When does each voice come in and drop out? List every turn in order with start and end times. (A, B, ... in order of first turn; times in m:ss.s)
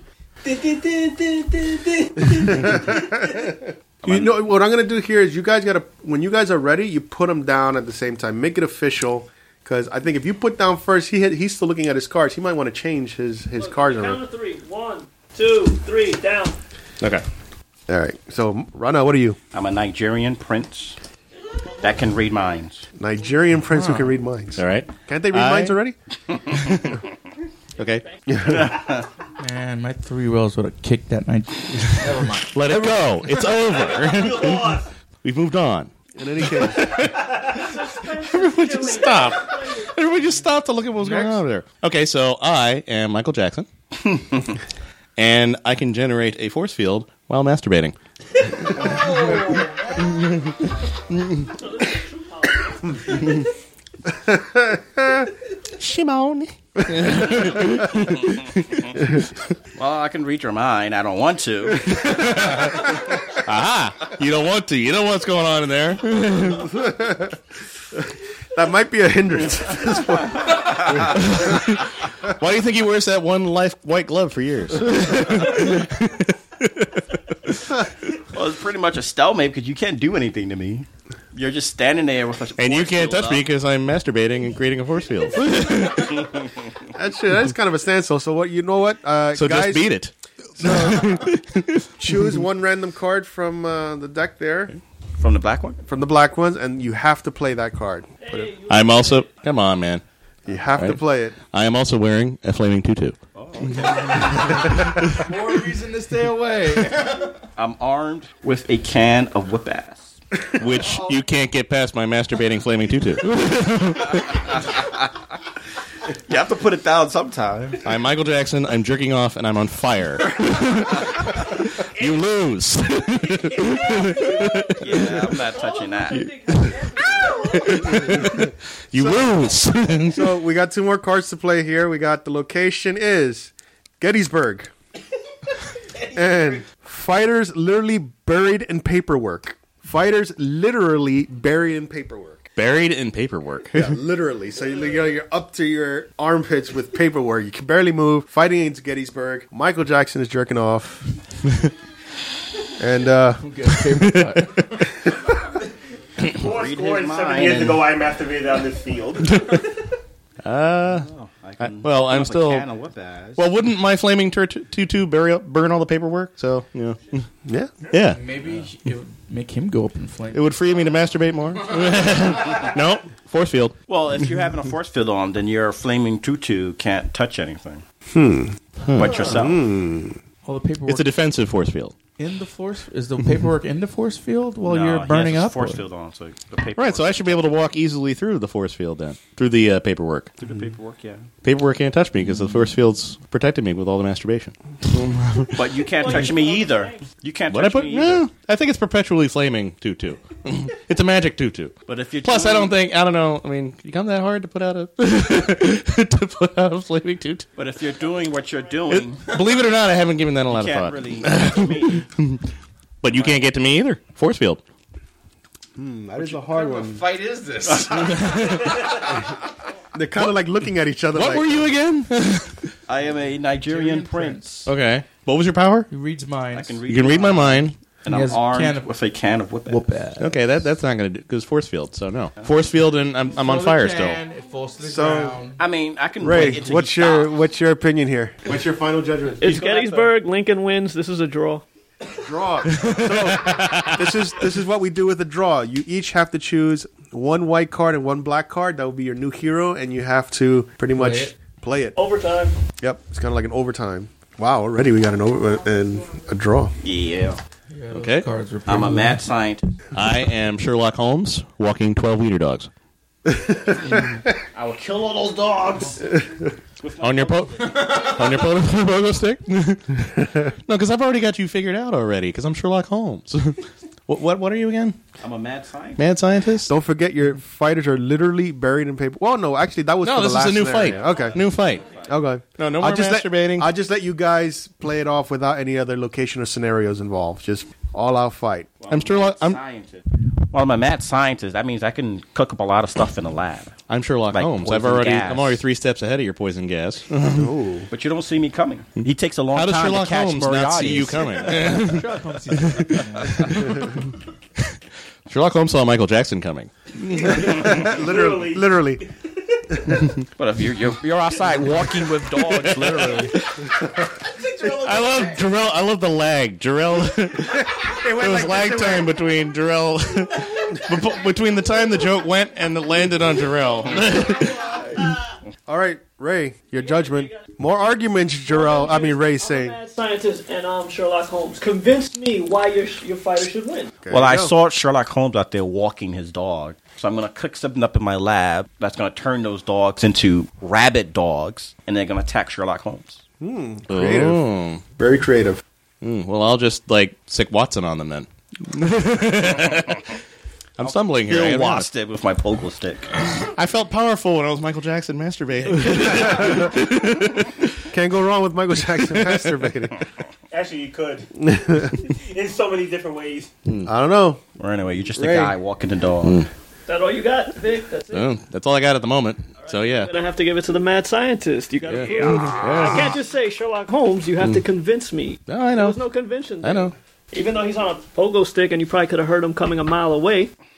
0:00.4-0:02.6 A
0:02.2-0:14.2 B
0:13.6-0:16.6 C
0:17.9-0:19.4 B
0:19.5-0:21.0 D
0:21.8-0:22.8 D
0:23.0-0:26.0 B
0:24.6-0:25.8 E
0:26.5-0:27.0 E
0:27.8-0:28.0 E
0:27.8-0:28.2 C
0:28.3-0:28.8 B
0:28.4-0:29.1 D
0:29.4-0:33.0 F
0:31.8-0:43.7 E
0:33.6-0:34.9 A
0:36.2-0:37.0 B
0:37.2-0:37.6 A
0:37.4-0:40.3 C
0:41.0-0:41.4 F
0:45.2-0:48.0 E
0:48.7-0:50.0 C
0:51.1-0:51.5 E
0:51.4-0:53.4 C
0:54.2-0:55.3 B
0:55.8-0:59.0 E
0:59.8-1:02.2 D
1:02.0-1:02.9 E
1:03.4-1:06.7 E
1:06.5-1:07.4 B
1:07.9-1:11.5 B
1:11.1-1:17.6 E
1:18.3-1:23.5 D
1:22.6-1:26.4 E
1:26.9-1:29.9 B
1:29.3-1:32.3 E
1:30.6-1:31.3 B
1:32.0-1:34.7 B
1:35.2-1:35.8 D
1:35.9-1:38.5 B
1:38.2-1:39.4 C
1:38.7-1:40.0 E
1:40.4-1:41.4 B
1:40.8-1:43.2 E
1:43.3-1:44.7 D
1:43.8-1:45.2 E
1:45.2-1:47.3 F
1:47.6-1:50.2 D
1:50.6-1:54.2 E
1:50.9-1:51.1 F
1:56.3-1:57.8 D
1:57.8-2:05.3 E
2:02.0-2:02.3 A
2:03.6-2:08.2 C
2:04.8-2:06.3 D
2:06.1-2:10.3 E
2:08.0-2:09.4 B
2:10.0-2:14.7 B
2:16.1-2:22.5 B
2:22.6-2:24.0 E
2:23.7-2:31.1 B
2:32.8-2:33.4 B
2:33.4-2:34.6 F
2:34.0-2:34.6 E
2:36.2-2:37.9 D
2:36.3-2:39.7 A
2:40.4-2:41.1 E
2:40.8-2:43.4 D
2:41.6-2:42.7 E
2:43.4-2:47.2 E
2:47.4-2:47.7 B
2:47.9-2:48.2 E
2:48.1-2:50.5 F
2:50.3-2:53.8 E
2:53.9-2:57.8 D
2:58.1-2:58.6 B
2:58.9-2:59.2 E
2:58.9-2:59.6 D
2:59.2-3:00.2 B
3:00.4-3:01.1 F
3:00.9-3:01.9 E
3:02.2-3:05.8 F
3:04.6-3:07.5 D
3:06.8-3:10.3 E
3:10.4-3:11.3 D
3:11.4-3:15.6 E
3:15.5-3:18.3 D
3:15.9-3:17.0 C
3:17.5-3:27.5 E
3:21.9-3:22.8 D
3:27.6-3:29.3 D
3:28.9-3:32.4 E
3:30.5-3:32.1 D
3:33.0-3:34.6 E
3:33.1-3:33.4 D
3:35.8-3:37.1 B
3:36.2-3:38.7 F
3:37.7-3:38.1 D
3:37.9-3:38.8 E
3:39.9-3:41.8 B
3:41.1-3:42.7 E
3:42.9-3:44.7 D
3:43.6-3:44.7 F
3:44.6-3:45.9 E
3:45.9-3:46.8 F
3:46.5-3:49.8 D
3:46.9-3:47.8 E
3:48.1-3:48.9 F
3:49.7-3:50.4 F
3:50.2-3:54.2 E
3:53.4-3:55.6 F
3:54.8-3:55.4 B
3:55.6-3:57.3 D
3:56.2-3:59.6 B
3:59.4-4:00.1 D
3:59.4-4:01.6 C
4:02.2-4:12.0 B
4:02.7-4:04.0 E
4:10.9-4:11.3 F
4:12.0-4:12.6 C
4:12.8-4:16.7 B
4:16.8-4:17.4 D
4:17.7-4:19.2 F
4:17.9-4:18.2 E
4:18.6-4:19.6 D
4:19.9-4:22.7 E
4:23.3-4:24.2 B
4:24.5-4:26.1 D
4:26.8-4:28.5 D
4:27.0-4:30.1 E
4:27.6-4:28.1 F
4:30.7-4:35.0 E
4:35.2-4:36.0 D
4:36.0-4:36.7 E
4:36.6-4:41.4 B
4:40.0-4:41.9 E
4:40.8-4:42.1 D
4:42.0-4:48.7 B
4:42.6-4:43.7 E
4:48.8-4:53.8 D
4:48.9-4:49.6 E
4:53.9-4:57.5 E
4:54.3-4:55.6 D
4:57.3-4:57.9 B
4:57.9-5:01.5 D
4:59.0-5:04.0 E
5:01.4-5:03.8 F
5:05.3-5:07.8 E
5:07.2-5:09.0 B
5:07.3-5:09.0 A
5:10.4-5:13.4 D
5:12.4-5:13.4 E
5:14.7-5:24.7 E
5:17.6-5:19.2 B
5:25.7-5:29.8 B
5:26.8-5:27.5 C
5:28.4-5:33.9 C
5:34.0-5:34.5 B
5:34.1-5:43.2 D
5:43.4-5:44.4 B
5:43.9-5:44.8 E
5:45.0-5:45.6 B
5:46.0-5:50.1 E
5:50.8-5:51.9 E
5:50.8-5:53.2 D
5:53.6-5:57.6 E
5:56.0-5:56.8 B
5:57.9-6:00.0 B
5:59.0-5:59.6 E
6:00.5-6:01.3 A
6:01.4-6:02.0 B
6:02.0-6:03.5 A
6:03.8-6:04.4 B
6:04.6-6:06.4 D
6:05.2-6:05.6 B
6:06.9-6:08.3 C
6:08.1-6:10.1 E
6:09.6-6:20.5 C
6:11.8-6:13.2 E
6:15.5-6:16.0 E
6:16.6-6:16.9 E